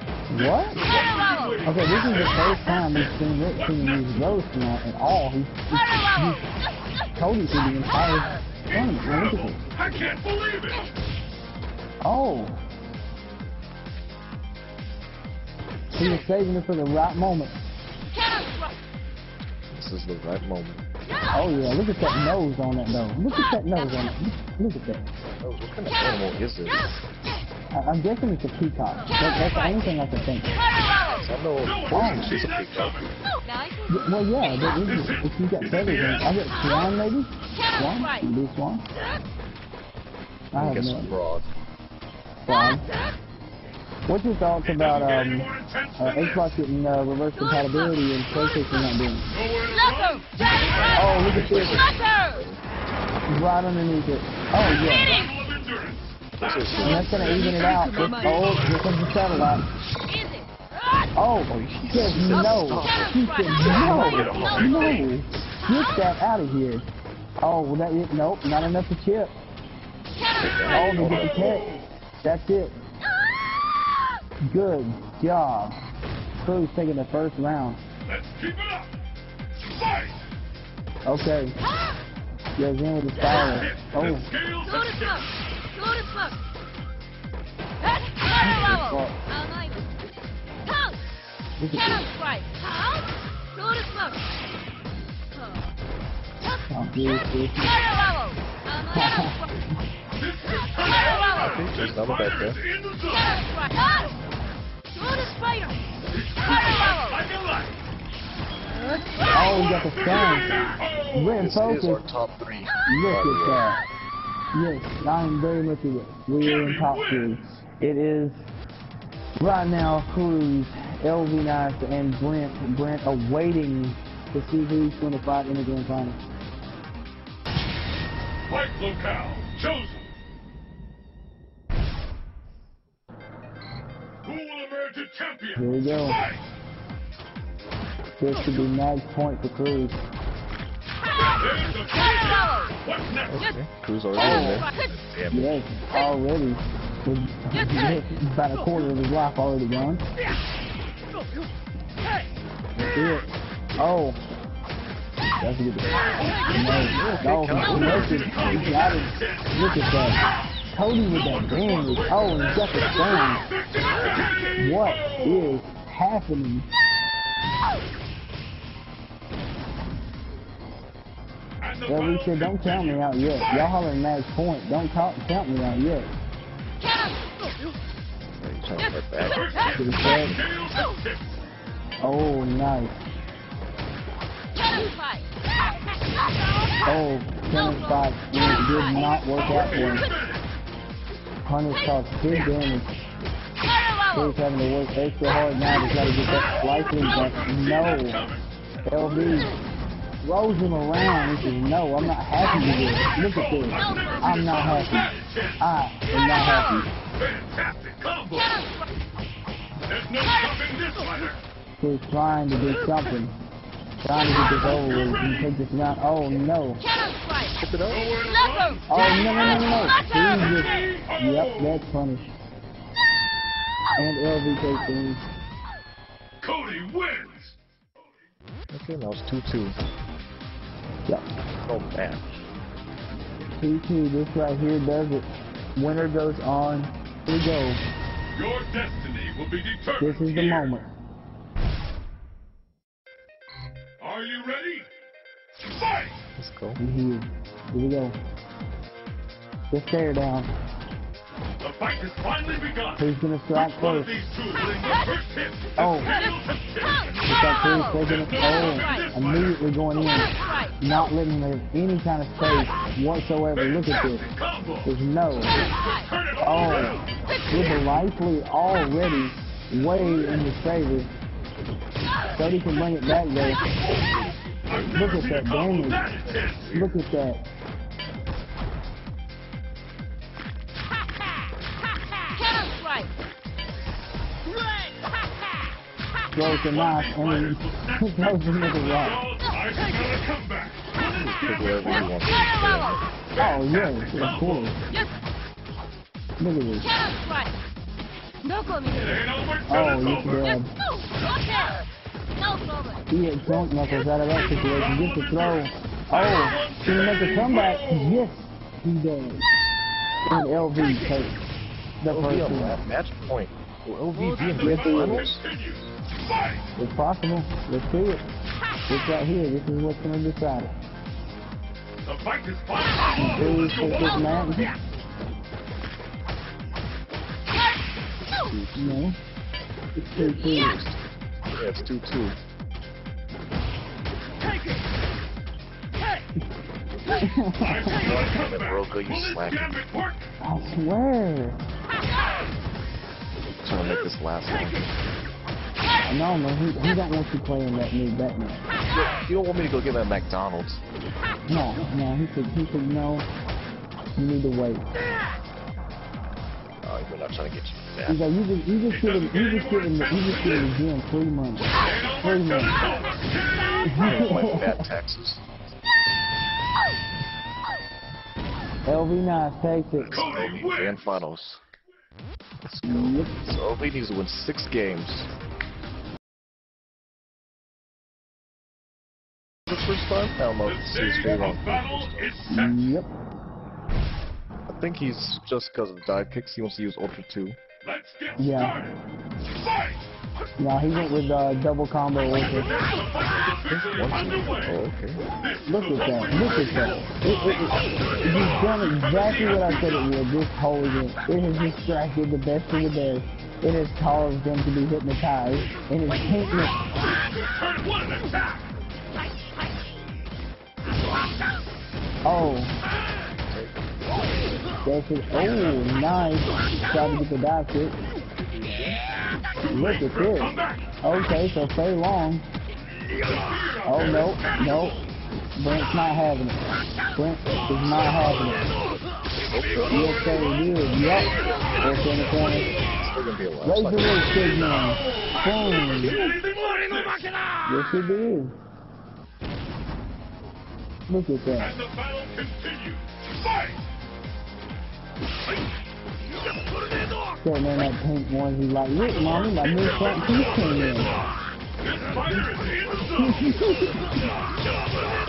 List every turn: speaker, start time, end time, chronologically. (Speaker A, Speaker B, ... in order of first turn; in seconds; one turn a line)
Speaker A: 0.3-0.8
Speaker B: 0.4-4.0
Speaker A: 1.6-6.4
Speaker A: 7.2-9.6
Speaker B: 9.1-10.9
Speaker A: 12.0-12.6
Speaker A: 15.9-17.6
Speaker C: 19.7-20.8
Speaker A: 21.3-25.1
Speaker C: 25.4-27.0
Speaker A: 27.7-30.6
Speaker C: 31.1-33.1
Speaker B: 31.6-33.1
Speaker A: 31.9-32.4
Speaker A: 33.9-38.9
Speaker B: 34.9-36.2
Speaker A: 40.5-41.2
Speaker C: 40.5-41.5
Speaker A: 42.4-42.9
Speaker A: 44.1-49.3
Speaker B: 44.6-46.5
Speaker B: 49.3-51.7
Speaker A: 51.0-51.8
Speaker C: 51.2-52.6
Speaker A: 53.3-55.2
Speaker B: 54.9-57.4
Speaker C: 56.4-57.5
Speaker A: 56.8-59.7
Speaker B: 58.2-58.6
Speaker A: 61.2-66.9
Speaker C: 61.5-65.4
Speaker B: 63.5-65.1
Speaker A: 67.4-69.3
Speaker C: 70.4-71.6
Speaker A: 70.7-72.7
Speaker B: 71.1-71.8
Speaker A: 74.5-75.8
Speaker A: 76.4-77.8
Speaker B: 78.1-78.9
Speaker A: 81.1-81.5
Speaker A: 82.6-84.3
Speaker B: 83.3-85.3
Speaker C: 88.4-89.1
Speaker A: 88.6-89.1
Speaker A: 91.6-92.1
Speaker A: 96.7-97.8
Speaker A: 98.8-99.5
Speaker B: 100.2-103.4
Speaker C: 101.4-102.6
Speaker B: 106.1-107.7
Speaker A: 109.3-112.0
Speaker B: 110.2-111.4
Speaker C: 111.4-113.7
Speaker A: 112.9-113.8
Speaker A: 114.5-118.5
Speaker B: 116.4-117.6
Speaker A: 119.4-126.2
Speaker B: 128.5-130.1
Speaker B: 134.2-136.4
Speaker A: 135.6-136.2
Speaker A: 138.2-140.0
Speaker B: 141.4-143.5
Speaker C: 143.3-145.6
Speaker A: 144.2-144.7
Speaker A: 145.3-150.1
Speaker A: 152.9-154.2
Speaker A: 155.4-163.5
Speaker B: 156.2-156.8
Speaker C: 156.8-158.2
Speaker B: 157.5-159.5
Speaker B: 161.1-165.5
Speaker A: 164.6-166.7
Speaker B: 171.6-173.7
Speaker A: 171.9-176.1
Speaker C: 178.3-180.4
Speaker B: 179.2-181.4
Speaker A: 179.8-180.4
Speaker A: 182.0-183.0
Speaker A: 186.8-190.1
Speaker B: 189.3-190.4
Speaker A: 191.5-193.0
Speaker A: 194.1-198.2
Speaker B: 196.9-198.4
Speaker A: 198.9-199.5
Speaker A: 200.2-206.9
Speaker B: 202.4-205.6
Speaker B: 207.2-208.7
Speaker B: 209.9-211.4
Speaker A: 211.8-213.3
Speaker A: 214.0-216.8
Speaker B: 214.5-215.5
Speaker C: 217.5-218.0
Speaker B: 217.9-221.8
Speaker A: 218.9-222.4
Speaker A: 224.0-225.3
Speaker B: 226.4-227.6
Speaker C: 228.7-229.8
Speaker C: 231.7-232.4
Speaker A: 233.5-237.8
Speaker B: 238.3-240.8
Speaker A: 240.0-240.9
Speaker B: 244.0-244.9
Speaker C: 246.4-246.8
Speaker A: 246.8-248.2
Speaker A: 249.7-250.5
Speaker B: 251.6-257.1
Speaker A: 253.0-254.2
Speaker A: 255.8-256.2
Speaker A: 257.2-264.2
Speaker B: 258.0-259.6
Speaker B: 263.6-264.9
Speaker A: 264.8-265.6
Speaker B: 265.5-267.1
Speaker A: 266.4-271.1
Speaker A: 272.4-273.6
Speaker B: 273.8-274.1
Speaker B: 274.7-276.9
Speaker A: 274.9-276.0
Speaker A: 276.7-277.4
Speaker A: 286.3-289.2
Speaker B: 286.7-292.1
Speaker C: 291.1-293.0
Speaker B: 293.4-294.7
Speaker A: 293.4-294.9
Speaker A: 296.4-296.9
Speaker B: 298.9-300.4
Speaker A: 299.7-300.7
Speaker A: 303.1-309.5
Speaker B: 304.4-308.3
Speaker A: 310.3-311.4
Speaker A: 312.0-312.8
Speaker C: 312.1-315.4
Speaker B: 314.3-316.6
Speaker A: 314.6-315.3
Speaker A: 316.8-318.2
Speaker A: 318.9-320.7
Speaker B: 322.1-324.6
Speaker A: 323.1-324.8
Speaker C: 328.3-329.0
Speaker A: 328.8-329.2
Speaker A: 330.0-330.8
Speaker C: 330.3-331.0
Speaker C: 331.5-332.4
Speaker A: 337.1-338.0
Speaker B: 337.6-340.2
Speaker C: 338.0-339.8
Speaker A: 340.4-341.6
Speaker C: 343.6-344.9
Speaker A: 346.1-348.6
Speaker C: 348.9-350.8
Speaker A: 351.5-353.3
Speaker A: 354.2-354.9
Speaker C: 356.8-358.2
Speaker A: 358.1-362.8
Speaker B: 358.9-360.7
Speaker B: 361.8-364.4
Speaker A: 363.9-364.8
Speaker C: 363.9-365.4
Speaker A: 368.9-370.3
Speaker C: 370.0-371.6
Speaker B: 370.1-371.2
Speaker C: 372.6-375.3
Speaker A: 372.8-373.3
Speaker C: 379.7-382.4
Speaker B: 380.7-382.9
Speaker A: 382.5-383.1
Speaker C: 384.7-387.6
Speaker B: 387.8-389.0
Speaker A: 388.4-388.8
Speaker A: 390.6-392.7
Speaker B: 392.4-394.8
Speaker C: 393.7-395.2
Speaker B: 395.4-400.1
Speaker A: 395.7-406.8
Speaker B: 407.0-408.7
Speaker A: 412.2-412.8
Speaker C: 413.5-414.2
Speaker A: 414.9-418.0
Speaker C: 418.4-419.0
Speaker B: 419.6-420.9
Speaker A: 419.7-422.4
Speaker B: 423.3-425.0
Speaker A: 423.9-425.0
Speaker A: 425.6-426.6
Speaker A: 427.1-428.7
Speaker C: 429.5-430.2
Speaker B: 429.6-430.1
Speaker A: 429.9-432.7
Speaker B: 431.4-431.8
Speaker C: 432.9-434.4
Speaker A: 433.6-436.3
Speaker B: 434.6-437.4
Speaker A: 437.6-438.6
Speaker A: 441.1-441.7
Speaker B: 441.6-443.8
Speaker A: 447.4-451.1
Speaker B: 449.2-450.6
Speaker B: 451.8-453.9
Speaker A: 453.1-453.9